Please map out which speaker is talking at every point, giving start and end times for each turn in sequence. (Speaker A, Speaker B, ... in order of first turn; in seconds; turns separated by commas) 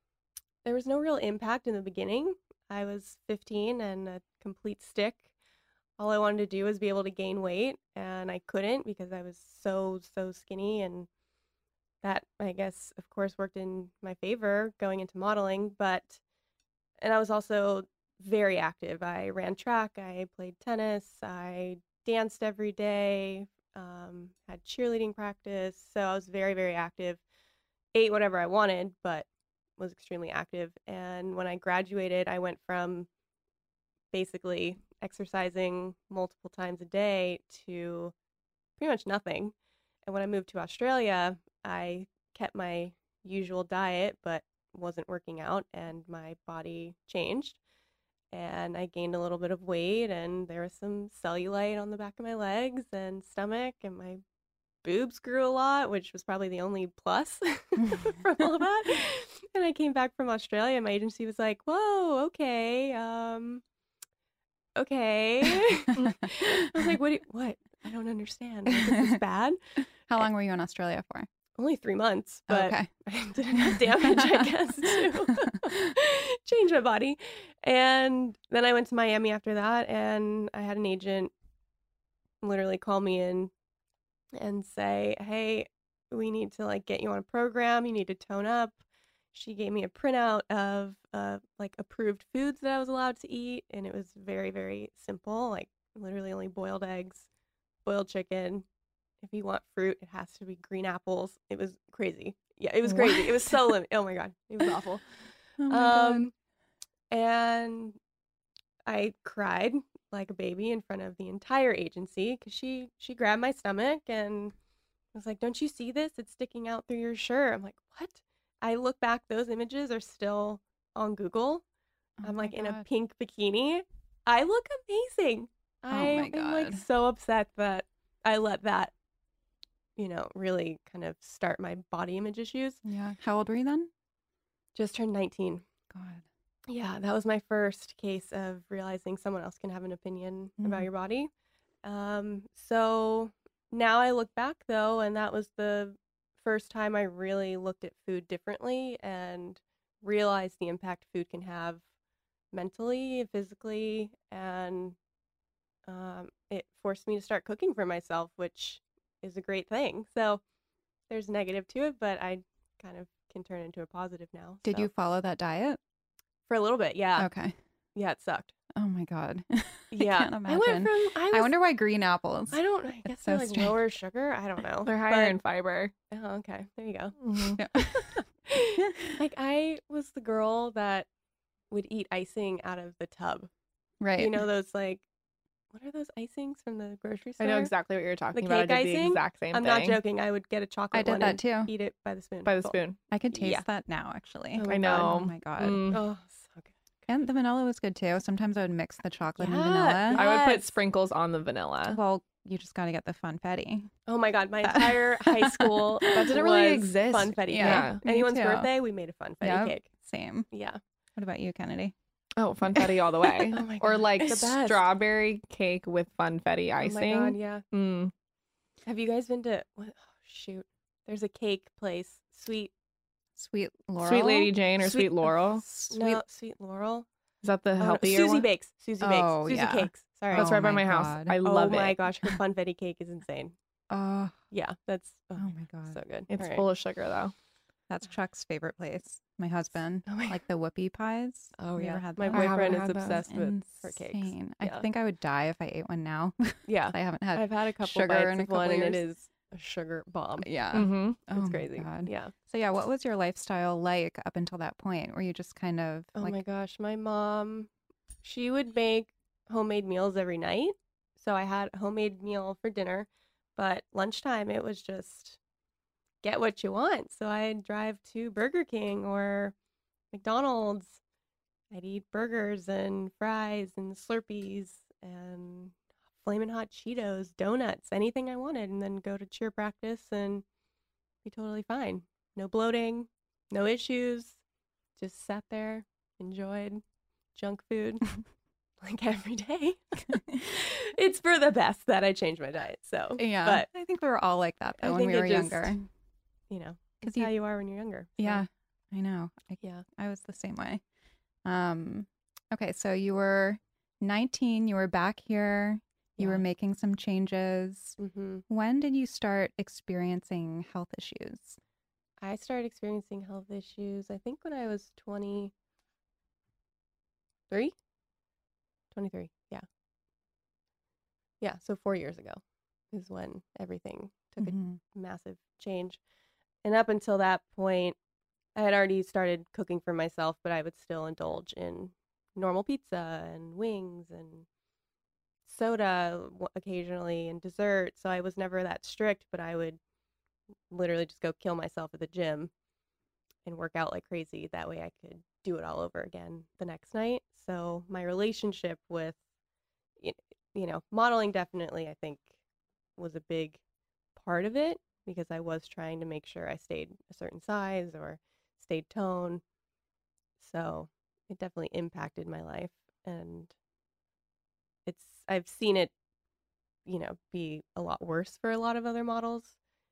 Speaker A: 0.6-5.3, Speaker A: 6.0-11.1, Speaker A: 12.0-16.2, Speaker A: 17.0-27.2, Speaker A: 27.9-29.3, Speaker A: 29.8-33.1, Speaker A: 34.1-38.1, Speaker A: 38.8-39.5, Speaker A: 40.1-47.6, Speaker A: 48.3-54.2, Speaker A: 54.8-63.6, Speaker A: 64.8-69.6, Speaker B: 68.8-69.2, Speaker B: 70.1-71.3, Speaker A: 71.6-81.3, Speaker B: 72.5-72.9, Speaker B: 73.5-75.8, Speaker A: 82.4-83.5, Speaker A: 84.3-88.8, Speaker A: 89.3-97.3, Speaker A: 97.8-98.7, Speaker A: 99.2-106.3, Speaker B: 102.8-103.8, Speaker B: 105.6-106.3, Speaker A: 107.1-108.0, Speaker A: 108.8-114.5, Speaker A: 115.1-121.6, Speaker B: 122.2-122.8, Speaker A: 122.2-128.9, Speaker B: 125.9-126.8, Speaker A: 130.0-132.8, Speaker B: 132.8-133.9, Speaker A: 134.7-135.6, Speaker B: 135.9-136.2, Speaker A: 136.7-141.3, Speaker B: 140.6-140.9, Speaker A: 141.8-151.8, Speaker A: 152.5-155.0, Speaker A: 155.8-160.4, Speaker A: 161.1-164.9, Speaker B: 164.7-165.8, Speaker A: 166.5-167.3, Speaker B: 167.2-167.6, Speaker A: 167.9-168.5, Speaker B: 168.8-173.8, Speaker A: 169.9-171.5, Speaker A: 172.5-175.4, Speaker C: 174.8-175.9, Speaker A: 176.1-177.2, Speaker C: 177.2-177.6, Speaker B: 177.6-178.2, Speaker A: 178.2-181.1, Speaker B: 178.8-179.1, Speaker A: 181.7-183.5, Speaker B: 184.0-184.4, Speaker A: 184.2-185.1, Speaker A: 185.7-187.7, Speaker C: 187.4-190.0, Speaker A: 188.3-192.8, Speaker B: 190.9-191.7, Speaker C: 192.4-193.0, Speaker B: 193.1-195.8, Speaker A: 193.3-193.7, Speaker A: 194.5-195.1, Speaker C: 194.7-196.0, Speaker A: 195.9-196.7, Speaker B: 197.1-200.3, Speaker A: 199.4-200.8, Speaker C: 200.1-202.0, Speaker B: 201.9-203.9, Speaker A: 204.1-209.9, Speaker B: 204.6-206.2, Speaker C: 206.1-208.0, Speaker B: 207.5-208.7, Speaker B: 209.4-210.5, Speaker A: 210.5-210.8, Speaker B: 211.2-211.9, Speaker C: 212.4-218.1, Speaker A: 213.4-214.8, Speaker A: 216.8-217.7, Speaker A: 218.8-222.7, Speaker B: 223.4-224.5, Speaker C: 224.0-225.7, Speaker A: 224.8-225.3, Speaker B: 225.6-226.2, Speaker A: 225.8-227.1, Speaker C: 227.4-228.5, Speaker A: 227.8-230.5, Speaker B: 229.0-231.4, Speaker C: 230.3-232.0, Speaker A: 231.4-233.6, Speaker B: 233.9-234.4, Speaker A: 234.5-236.6, Speaker B: 235.4-236.0, Speaker C: 236.3-237.3, Speaker B: 237.9-249.0, Speaker A: 240.1-240.4, Speaker A: 241.6-244.8, Speaker C: 242.3-243.2, Speaker A: 246.7-252.3, Speaker B: 250.4-256.4, Speaker C: 250.7-251.3, Speaker A: 256.2-257.7, Speaker A: 258.2-265.4, Speaker A: 266.2-269.5, Speaker A: 270.1-271.0, Speaker A: 271.7-280.4, Speaker A: 281.2-284.4, Speaker A: 285.0-286.8, Speaker A: 287.4-288.2, Speaker A: 288.8-293.7, Speaker B: 290.1-290.4, Speaker B: 293.2-295.9, Speaker A: 294.8-295.7, Speaker A: 296.5-298.4, Speaker B: 297.0-297.3, Speaker B: 298.2-300.8, Speaker B: 301.4-308.0, Speaker A: 306.2-306.4, Speaker A: 308.0-308.4, Speaker B: 308.5-311.6, Speaker A: 312.2-315.5, Speaker A: 317.5-317.7, Speaker A: 318.9-319.7, Speaker A: 321.4-326.0, Speaker B: 324.4-324.8, Speaker A: 326.6-327.9, Speaker A: 328.6-334.4, Speaker A: 335.4-339.8, Speaker A: 340.7-342.5, Speaker A: 343.4-349.2, Speaker A: 350.0-352.3, Speaker A: 353.0-353.6, Speaker A: 354.2-359.4, Speaker A: 360.4-363.5, Speaker A: 364.9-365.9, Speaker A: 366.9-369.6